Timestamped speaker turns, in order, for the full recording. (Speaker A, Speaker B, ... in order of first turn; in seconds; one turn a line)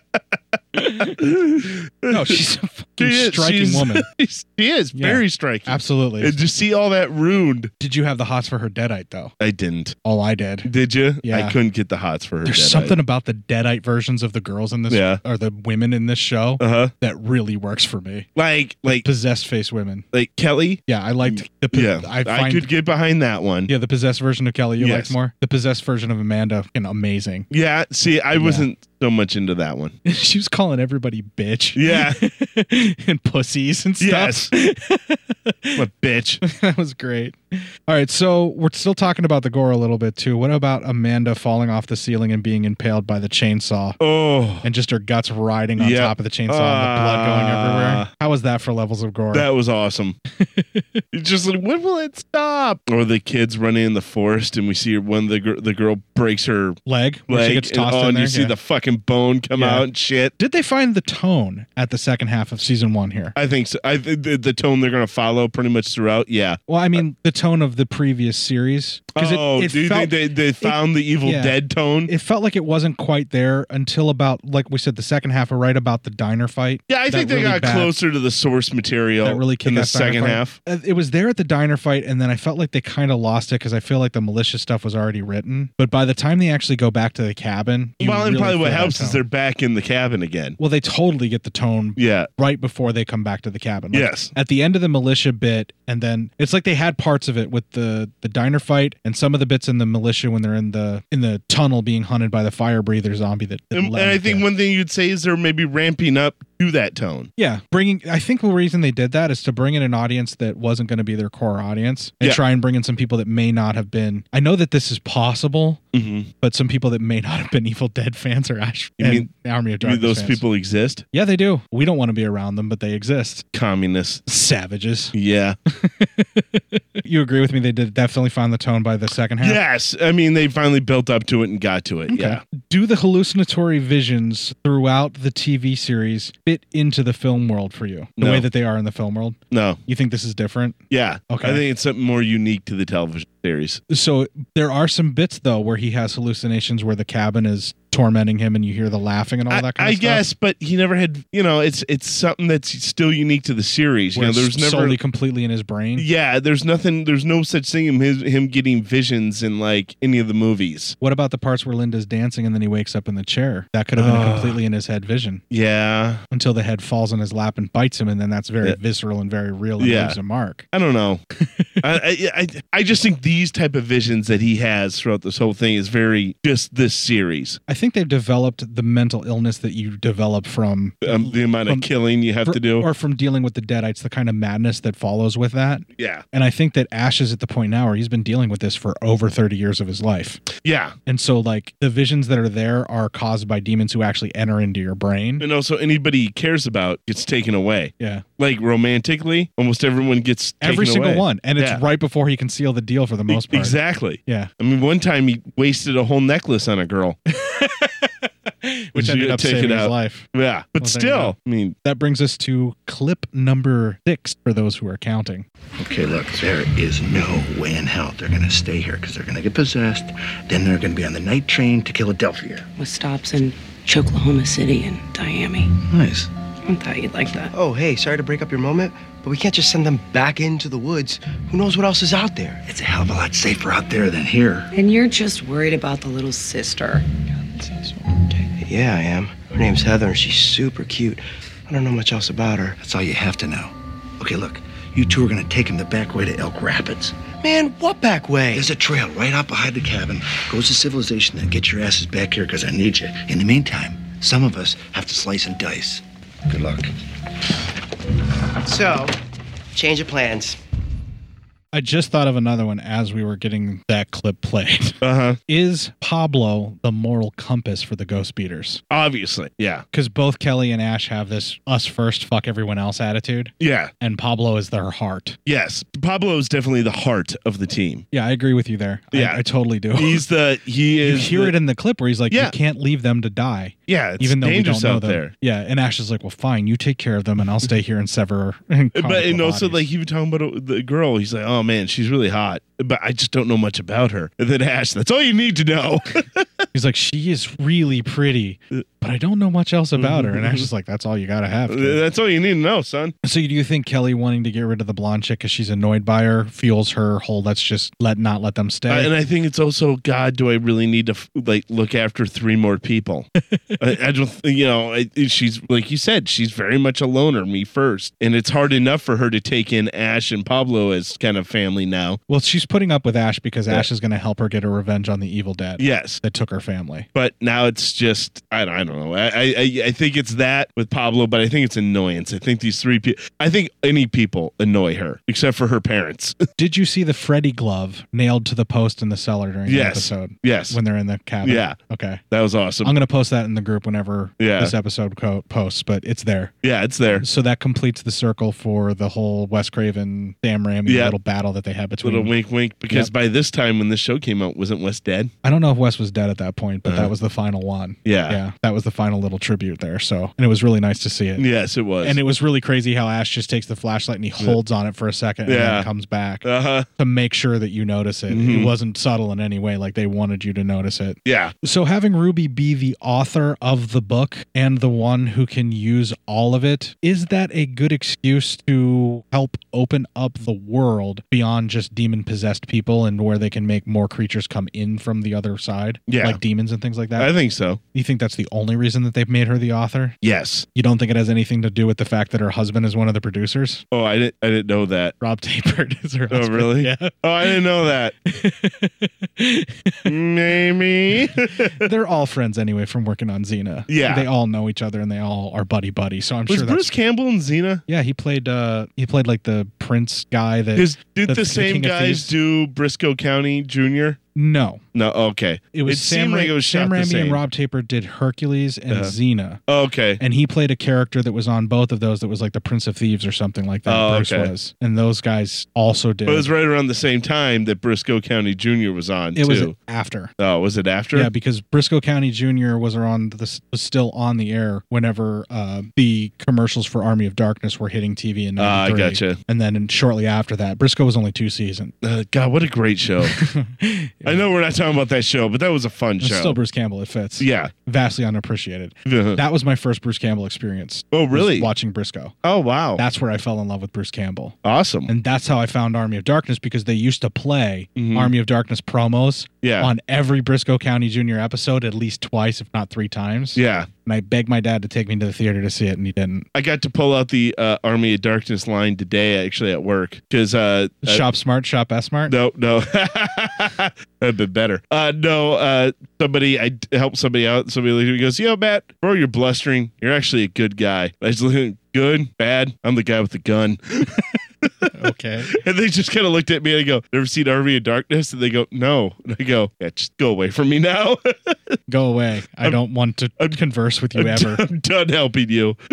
Speaker A: 0.8-2.4
Speaker B: 2.1-4.0
Speaker A: 3.0-7.7
Speaker B: 5.0-6.3
Speaker B: 7.8-9.3
Speaker A: 9.4-10.0
Speaker B: 10.0-10.7
Speaker A: 10.6-12.9
Speaker B: 11.2-11.6
Speaker B: 12.5-18.3
Speaker A: 14.9-15.2
Speaker A: 16.6-16.9
Speaker A: 18.4-19.1
Speaker B: 18.9-20.1
Speaker A: 20.1-23.7
Speaker B: 20.9-22.7
Speaker B: 23.7-27.5
Speaker A: 24.8-25.1
Speaker A: 27.5-29.9
Speaker B: 28.4-28.7
Speaker B: 30.1-35.8
Speaker A: 31.8-32.2
Speaker A: 34.0-34.5
Speaker A: 35.8-36.4
Speaker B: 36.4-44.0
Speaker A: 44.0-44.6
Speaker B: 44.6-49.5
Speaker A: 45.8-48.1
Speaker A: 49.3-50.2
Speaker B: 50.5-51.0
Speaker A: 51.1-60.3
Speaker B: 56.9-58.5
Speaker B: 59.6-59.9
Speaker B: 60.4-63.4
Speaker A: 63.4-67.0
Speaker B: 66.7-71.5
Speaker A: 69.2-72.1
Speaker B: 72.1-77.9
Speaker A: 76.9-80.6
Speaker B: 79.2-89.2
Speaker A: 88.0-90.6
Speaker B: 90.6-104.5
Speaker A: 92.0-92.3
Speaker A: 93.9-94.3
Speaker A: 103.8-107.3
Speaker B: 107.4-115.8
Speaker A: 115.9-116.3
Speaker B: 116.4-120.4
Speaker A: 119.0-119.3
Speaker A: 119.8-121.0
Speaker B: 121.1-123.5
Speaker A: 123.5-124.2
Speaker B: 124.3-125.1
Speaker A: 125.1-125.6
Speaker B: 125.7-129.6
Speaker A: 129.4-132.4
Speaker B: 132.1-140.8
Speaker A: 138.2-138.5
Speaker A: 139.5-139.8
Speaker A: 140.9-143.8
Speaker B: 141.3-141.6
Speaker B: 143.9-150.2
Speaker A: 149.5-155.0
Speaker B: 154.2-156.1
Speaker A: 156.0-161.0
Speaker B: 161.0-165.4
Speaker A: 164.0-164.6
Speaker A: 165.5-166.2
Speaker B: 166.3-170.7
Speaker A: 169.8-170.2
Speaker A: 170.7-171.2
Speaker A: 171.8-177.6
Speaker B: 177.7-181.9
Speaker A: 181.0-182.9
Speaker B: 182.4-190.4
Speaker A: 186.0-186.2
Speaker A: 190.6-190.9
Speaker B: 191.1-195.5
Speaker A: 195.4-201.8
Speaker B: 198.0-198.2
Speaker B: 200.6-204.5
Speaker A: 203.3-207.2
Speaker B: 207.3-210.3
Speaker A: 208.9-211.8
Speaker B: 210.8-215.5
Speaker C: 215.8-218.6
Speaker C: 220.5-222.6
Speaker D: 222.8-225.8
Speaker C: 225.9-226.3
Speaker D: 226.7-227.5
Speaker E: 227.5-232.6
Speaker C: 233.6-234.3
Speaker D: 234.7-238.5
Speaker E: 238.6-242.8
Speaker C: 242.8-243.7
Speaker C: 244.2-245.0
Speaker E: 247.4-248.7
Speaker C: 248.6-256.9
Speaker E: 258.6-259.2
Speaker E: 259.7-260.6
Speaker B: 261.7-268.8
Speaker A: 265.0-265.4
Speaker A: 268.9-269.8
Speaker B: 269.9-275.4
Speaker A: 273.6-273.9
Speaker A: 275.5-278.1
Speaker B: 278.1-280.3
Speaker A: 279.1-279.4
Speaker A: 279.9-281.6
Speaker B: 281.0-289.9
Speaker A: 283.9-285.3
Speaker A: 289.0-296.4
Speaker B: 296.7-302.0
Speaker A: 300.0-300.7
Speaker A: 301.7-303.1
Speaker B: 303.2-309.1
Speaker A: 308.9-313.3
Speaker B: 313.5-313.8
Speaker A: 313.8-322.2
Speaker B: 322.3-327.1
Speaker A: 325.8-326.2
Speaker A: 327.1-336.4
Speaker B: 336.6-342.2
Speaker A: 339.7-340.8
Speaker A: 341.4-341.8
Speaker A: 342.3-342.9
Speaker B: 342.8-346.5
Speaker A: 344.4-344.7
Speaker A: 346.6-347.2
Speaker B: 347.2-352.3
Speaker A: 350.9-351.1
Speaker A: 352.0-355.3
Speaker B: 355.4-361.4
Speaker A: 356.9-357.1
Speaker A: 358.1-358.4
Speaker A: 361.4-362.2
Speaker B: 362.0-366.5
Speaker A: 365.5-365.9
Speaker A: 366.4-366.9
Speaker B: 367.0-387.3
Speaker A: 368.3-368.7
Speaker A: 371.3-371.5
Speaker A: 386.1-386.4
Speaker A: 387.2-387.8
Speaker B: 387.9-390.2
Speaker A: 390.2-390.7
Speaker B: 390.8-393.8
Speaker A: 393.9-395.1
Speaker B: 395.2-397.6
Speaker A: 396.3-398.1
Speaker B: 398.3-400.1
Speaker A: 400.1-401.9
Speaker B: 401.8-406.9
Speaker A: 403.9-404.3
Speaker A: 406.5-407.8
Speaker B: 407.9-412.3
Speaker A: 410.8-414.2
Speaker B: 414.4-414.8
Speaker A: 414.9-417.4
Speaker B: 415.7-419.6
Speaker A: 418.9-419.1
Speaker A: 419.7-420.2
Speaker B: 420.2-426.5
Speaker A: 423.9-424.5
Speaker A: 426.3-429.7
Speaker B: 429.4-430.3
Speaker A: 430.4-431.3
Speaker B: 431.1-441.9
Speaker A: 438.6-439.4
Speaker A: 442.0-443.4
Speaker B: 443.2-444.4
Speaker A: 444.2-446.6
Speaker B: 446.2-452.4
Speaker A: 447.4-447.7
Speaker A: 449.1-449.4
Speaker A: 451.1-451.7
Speaker A: 452.4-453.0
Speaker B: 453.0-454.6
Speaker A: 454.6-455.1
Speaker B: 455.1-466.5
Speaker A: 458.0-458.3
Speaker A: 459.6-459.9
Speaker A: 463.6-463.9
Speaker A: 466.6-471.2
Speaker B: 471.1-472.3
Speaker A: 472.3-484.9
Speaker B: 484.9-485.5
Speaker A: 485.5-491.6
Speaker B: 491.9-494.6
Speaker A: 494.1-495.8